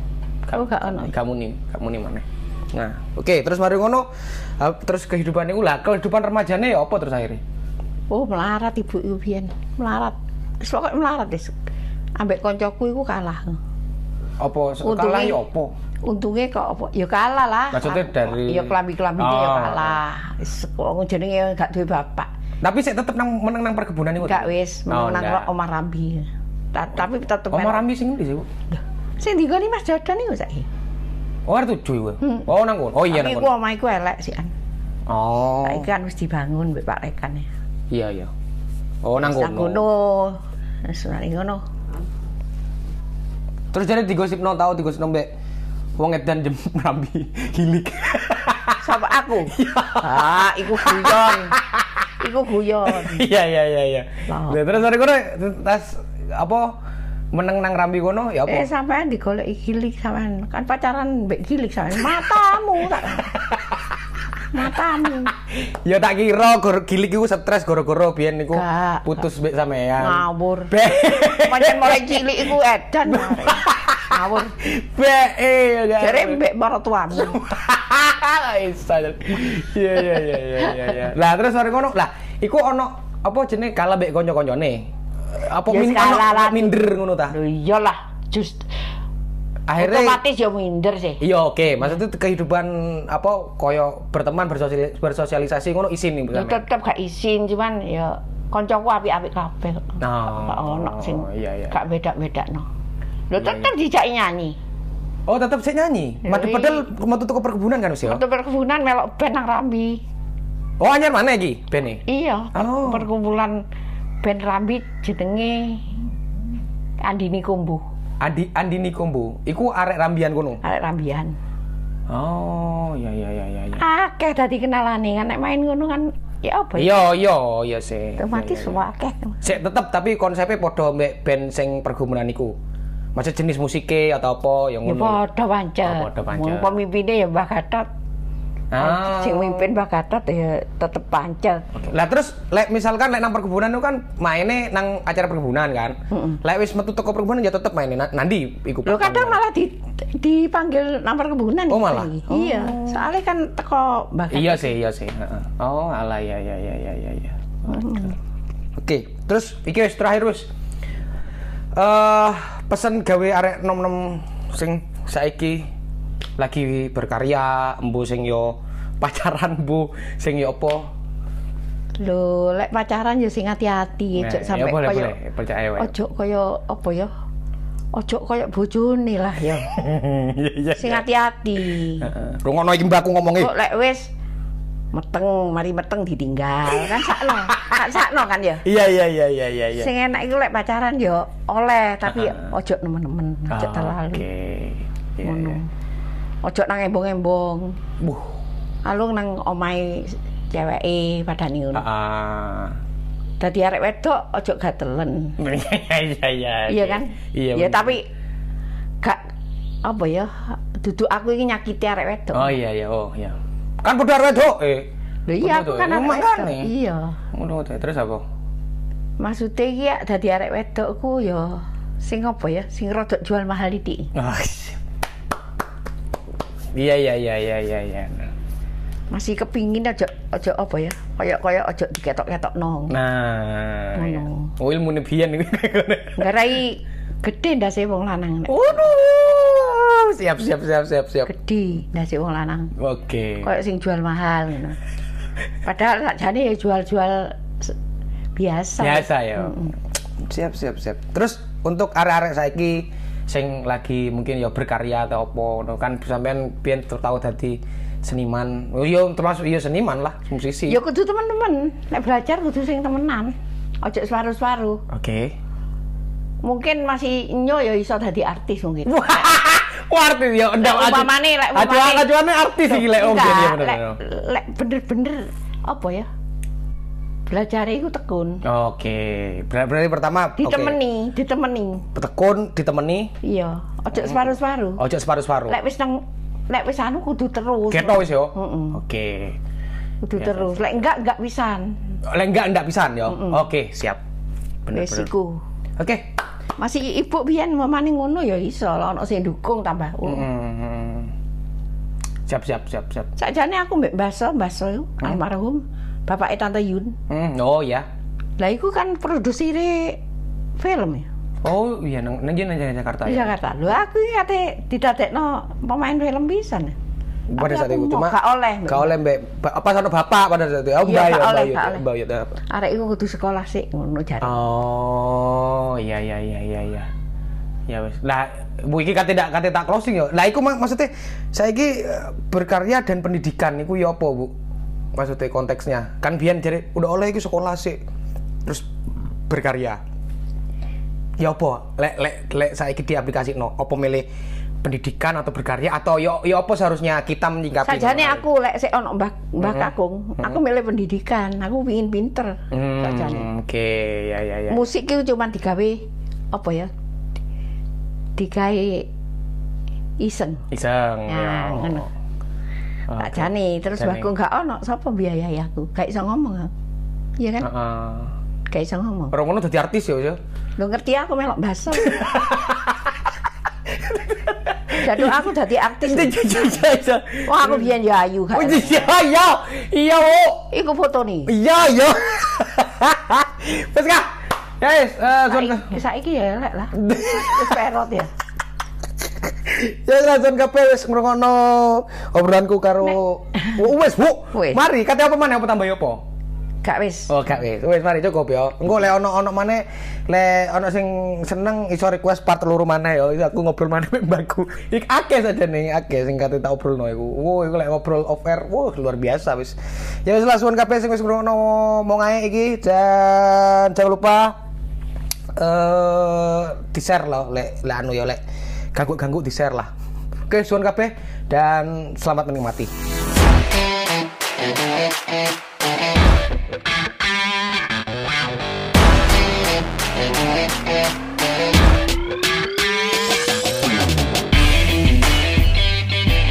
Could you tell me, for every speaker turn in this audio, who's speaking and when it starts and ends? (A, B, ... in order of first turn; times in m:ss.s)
0:00.4-0:04.0 A
0:00.5-0:01.1 B
0:04.6-0:07.4 A
0:08.1-0:11.5 B
0:12.2-0:13.6 B
0:14.4-0:15.7 A
0:14.8-0:15.4 B
0:16.0-0:22.3 B
0:17.7-0:20.0 A
0:22.6-0:25.5 A
0:24.2-0:27.8 B
0:27.5-0:28.5 A
0:28.7-0:30.7 B
0:31.4-0:33.5 A
0:32.2-0:32.5 B
0:33.0-0:34.5 B
0:35.1-0:35.9 A
0:35.6-0:37.5 B
0:37.9-0:38.3 A
0:39.0-0:39.8 A
0:39.2-0:41.6 B
0:43.7-0:45.3 A
0:46.0-0:48.8 A
0:48.8-0:51.6 B
0:49.5-0:52.1 A
0:52.2-0:53.2 B
0:52.8-0:56.7 A
0:54.3-0:54.7 B
0:57.3-0:58.7 A
0:58.5-1:03.3 B
1:03.3-1:03.8 A
1:04.5-1:05.3 B
1:05.4-1:12.5 A
1:08.5-1:09.2 B
1:10.0-1:14.6 B
1:13.0-1:16.4 A
1:16.0-1:17.4 B
1:17.1-1:27.3 A
1:25.6-1:28.7 B
1:29.7-1:30.2 A
1:29.8-1:31.2 B
1:31.2-1:36.6 A
1:36.3-1:42.7 B
1:40.0-1:41.8 A
1:43.3-1:44.6 B
1:43.4-1:43.7 A
1:45.3-1:48.2 A
1:46.2-1:46.9 B
1:48.0-1:50.0 B
1:50.8-1:53.1 A
1:52.1-1:53.6 B
1:54.2-1:55.8 B
1:57.0-1:57.8 B
1:58.2-2:00.6 A
2:00.6-2:01.3 B
2:02.1-2:03.8 A
2:03.8-2:07.1 B
2:06.8-2:08.8 A
2:08.2-2:09.4 B
2:09.4-2:12.5 A
2:13.1-2:15.2 A
2:14.8-2:17.9 B
2:15.8-2:16.8 A
2:18.7-2:19.7 A
2:18.8-2:21.7 B
2:21.8-2:29.4 A
2:26.1-2:26.4 B
2:28.8-2:34.7 B
2:31.7-2:33.0 A
2:34.3-2:38.1 A
2:37.6-2:38.2 B
2:38.8-2:40.5 A
2:41.7-2:45.6 A
2:46.4-2:50.9 A
2:52.0-2:55.1 B
2:54.1-2:55.9 A
2:55.8-2:57.1 B
2:57.9-2:59.7 B
2:59.7-3:01.0 A
3:00.8-3:02.1 B
3:02.0-3:03.5 A
3:03.4-3:04.1 B
3:04.9-3:08.6 B
3:06.7-3:07.8 A
3:08.6-3:09.9 A
3:09.7-3:14.2 B
3:12.1-3:12.5 A
3:13.5-3:15.6 A
3:15.2-3:15.7 B
3:16.4-3:17.8 B
3:18.0-3:18.3 A
3:18.8-3:21.8 B
3:21.7-3:22.8 A
3:23.4-3:25.4 B
3:25.4-3:28.0 A
3:26.7-3:28.1 B
3:29.8-3:32.6 B
3:32.3-3:36.7 A
3:35.3-3:37.2 B
3:37.3-3:38.2 A
3:39.2-3:44.1 B
3:44.1-3:44.8 A
3:46.7-3:48.3 A
3:49.1-3:53.0 B
3:52.9-3:56.3 A
3:53.9-3:54.5 B
3:56.2-3:58.8 B
3:58.5-4:01.3 A
4:01.2-4:02.7 B
4:02.8-4:03.5 A
4:03.4-4:04.8 B
4:05.6-4:07.7 B
4:08.4-4:09.7 B
4:08.8-4:09.7 A
4:10.2-4:20.8 A
4:20.7-4:24.8 B
4:24.9-4:25.3 A
4:26.4-4:29.3 B
4:28.8-4:34.0 A
4:30.6-4:32.1 B
4:32.6-4:36.1 B
4:37.3-4:38.4 B
4:38.4-4:40.8 A
4:40.4-4:41.8 B
4:41.9-4:43.1 A
4:43.2-4:44.8 B
4:43.9-4:45.6 A
4:45.5-4:48.8 B
4:47.7-4:49.4 A
4:50.0-4:51.8 B
4:50.2-4:50.5 A
4:52.1-4:54.0 A
4:53.1-4:53.4 B
4:54.6-4:55.1 A
4:54.7-4:55.4 B
4:55.8-4:56.1 A
4:56.6-5:00.3 B
5:00.0-5:01.1 A
5:02.3-5:03.1 A
5:03.2-5:07.0 B
5:07.1-5:07.8 A
5:08.4-5:10.0 B
5:10.6-5:11.1 B
5:11.4-5:13.3 A
5:13.0-5:16.7 B
5:17.3-5:22.4 A
5:17.4-5:18.9 B
5:20.8-5:21.8 B
5:22.5-5:24.4 B
5:24.2-5:26.9 A
5:27.7-5:34.3 A
5:34.9-5:37.8 A
5:39.3-5:39.8 A
5:41.2-5:44.1 A
5:44.6-5:48.2 A
5:47.6-5:53.3 B
5:49.4-5:50.4 A
5:52.5-5:54.6 A
5:54.5-5:56.7 B
5:58.2-5:58.9 B
6:00.0-6:00.4 B
6:00.5-6:01.8 A
6:01.1-6:01.9 B
6:02.9-6:04.1 A
6:03.0-6:06.5 B
6:07.2-6:07.5 B
6:07.4-6:08.1 A
6:08.5-6:09.1 B
6:09.1-6:10.2 A
6:10.6-6:12.2 B
6:11.8-6:12.9 A
6:13.7-6:15.2 A
6:14.8-6:16.3 B
6:15.8-6:17.7 A
6:17.2-6:18.9 B
6:18.3-6:20.5 A
6:20.5-6:21.3 B
6:21.3-6:25.8 A
6:25.3-6:28.1 B
6:26.7-6:27.6 A
6:29.2-6:36.0 A
6:34.3-6:34.6 B
6:36.6-6:37.1 B
6:37.1-6:54.4 A
6:55.4-6:58.2 A
6:58.7-6:59.7 A
7:00.3-7:02.7 A